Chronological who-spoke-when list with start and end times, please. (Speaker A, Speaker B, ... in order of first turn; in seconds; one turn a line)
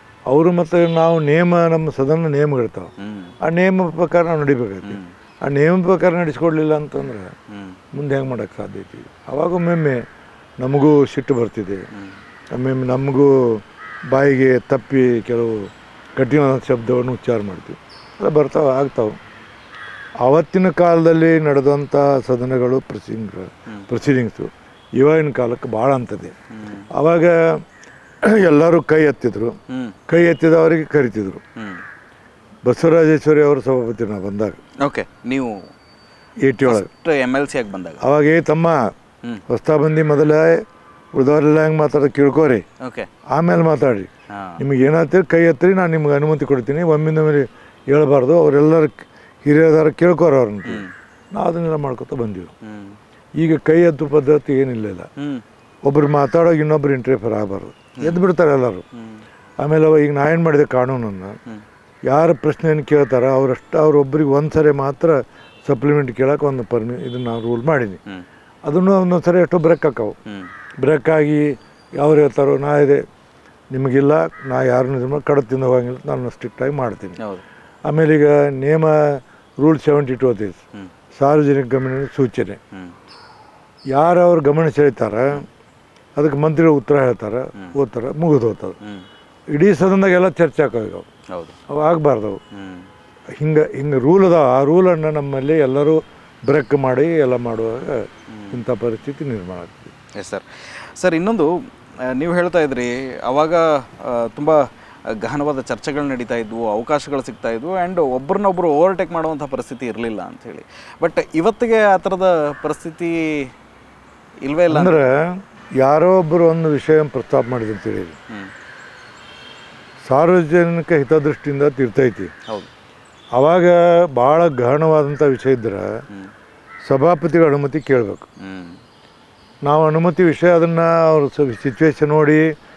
Speaker A: 0.3-2.9
Speaker B: 3.0-3.3
Speaker A: 3.4-7.3
Speaker B: 4.8-5.1
Speaker B: 7.5-7.8
Speaker A: 7.9-10.0
Speaker A: 10.6-11.9
Speaker A: 12.5-19.2
Speaker A: 20.2-26.3
Speaker B: 26.6-26.9
Speaker A: 26.9-27.6
Speaker A: 28.2-29.6
Speaker B: 29.7-30.0
Speaker A: 30.1-31.4
Speaker B: 31.6-31.8
Speaker A: 32.6-34.6
Speaker B: 34.8-35.6
Speaker A: 36.5-36.9
Speaker B: 36.6-38.0
Speaker A: 38.0-38.9
Speaker A: 39.5-40.6
Speaker A: 41.1-42.6
Speaker B: 42.8-43.1
Speaker A: 43.3-50.8
Speaker B: 44.3-44.6
Speaker B: 50.7-50.9
Speaker A: 51.4-52.5
Speaker B: 52.6-53.0
Speaker A: 53.4-55.1
Speaker B: 55.2-55.4
Speaker A: 55.9-58.9
Speaker B: 59.0-59.2
Speaker A: 59.6-61.4
Speaker A: 62.1-68.0
Speaker A: 68.7-70.2
Speaker A: 70.8-73.0
Speaker A: 73.7-77.2
Speaker A: 77.9-80.6
Speaker A: 81.2-82.6
Speaker A: 83.9-85.5
Speaker A: 86.2-88.8
Speaker A: 89.5-91.0
Speaker A: 91.7-92.4
Speaker B: 92.5-92.9
Speaker A: 93.4-99.9
Speaker B: 98.3-98.6
Speaker B: 100.2-100.5
Speaker B: 101.0-101.5
Speaker B: 102.1-113.5
Speaker B: 114.5-115.1
Speaker A: 114.7-118.2
Speaker A: 120.0-122.3
Speaker A: 123.3-126.0
Speaker A: 126.8-128.3
Speaker B: 128.4-128.8
Speaker A: 129.7-132.5